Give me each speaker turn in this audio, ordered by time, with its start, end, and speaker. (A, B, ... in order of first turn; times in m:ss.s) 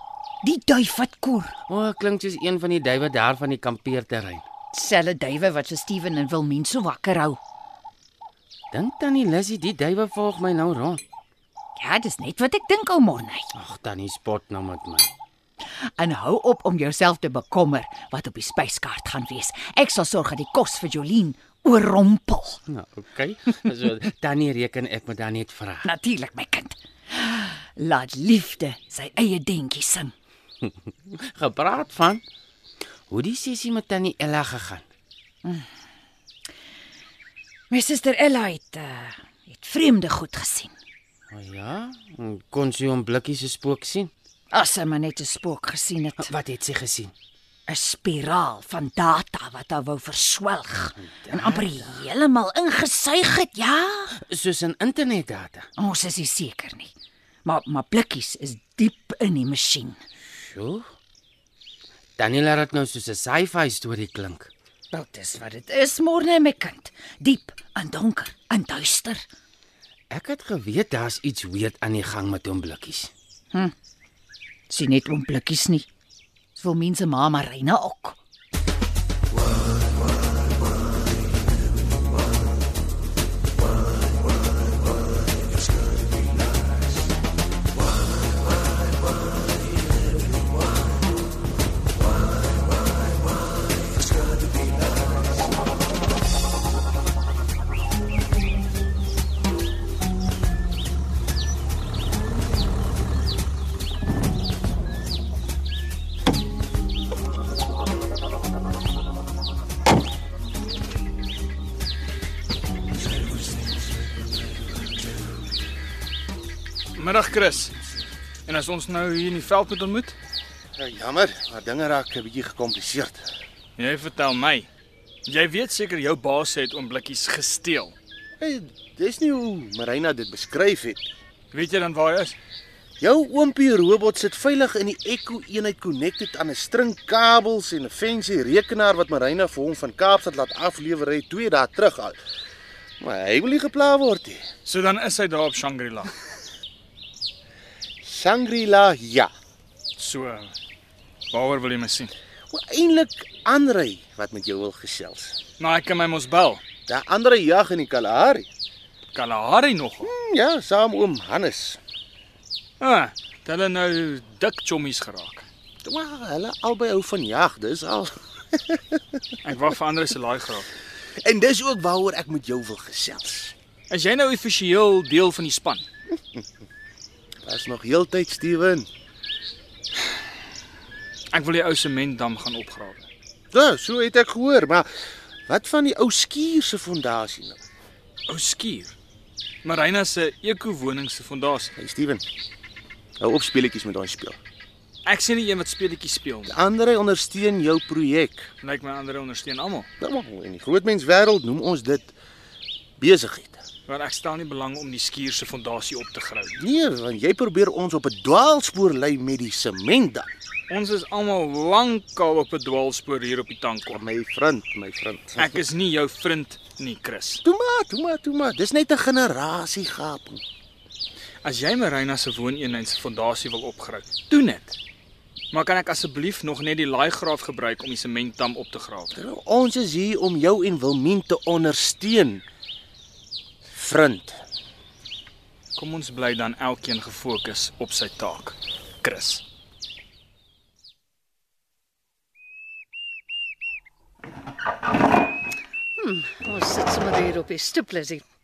0:00.4-0:01.6 A
0:01.7-0:04.4 B
0:04.7-0:07.4 A
0:08.7-0:11.0 B
0:11.8-0:13.5 A
0:13.6-0:15.1 B
0:16.0-0:22.6 A
0:22.7-0:25.9 B
0:25.8-0:30.1 A
0:31.3-0:32.2 B
0:33.1-0:34.8 B
0:37.7-0:40.7 A
0:41.3-0:44.1 B
0:44.5-0:46.3 A
0:46.2-0:47.1 B
0:47.7-0:54.1 A
0:51.0-0:51.7 B
0:54.3-0:55.7 B
0:55.8-0:56.9 A
0:57.4-1:00.0 A
1:00.3-1:00.9 B
1:02.2-1:04.5 B
1:04.9-1:09.2 A
1:10.1-1:13.1 B
1:14.7-1:15.9 A
1:16.6-1:18.2 A
1:57.0-1:57.7 C
1:58.5-2:00.2 C
2:00.8-2:03.3 D
2:03.8-2:04.7 C
2:05.3-2:08.0 C
2:08.4-2:11.1 D
2:11.5-2:12.4 C
2:13.0-2:22.2 D
2:23.0-2:24.4 D
2:24.6-2:26.1 C
2:28.0-2:29.3 D
2:30.0-2:30.5 C
2:31.3-2:32.1 C
2:32.5-2:35.4 D
2:35.6-2:36.6 C
2:36.9-2:38.5 D
2:39.1-2:40.1 C
2:40.0-2:41.8 D
2:42.8-2:45.4 C
2:45.8-2:49.0 D
2:49.4-2:50.7 C
2:51.2-2:53.5 D
2:53.9-2:55.8 C
2:57.4-2:58.9 D
3:01.3-3:03.1 C
3:03.5-3:04.9 D
3:05.5-3:07.6 D
3:08.3-3:09.0 C
3:09.6-3:11.7 C
3:11.8-3:12.2 D
3:13.2-3:14.4 D
3:15.1-3:16.6 C
3:16.5-3:18.5 D
3:18.6-3:19.9 C
3:20.0-3:22.1 D
3:23.0-3:23.6 D
3:23.9-3:26.6 C
3:26.6-3:30.3 D
3:30.7-3:34.0 C
3:33.9-3:35.6 D
3:35.4-3:37.4 C
3:37.4-3:40.4 D
3:41.4-3:44.8 C
3:45.5-3:49.1 C
3:49.2-3:52.4 D
3:53.7-3:54.4 D
3:55.8-3:59.4 C
4:06.0-4:08.2 E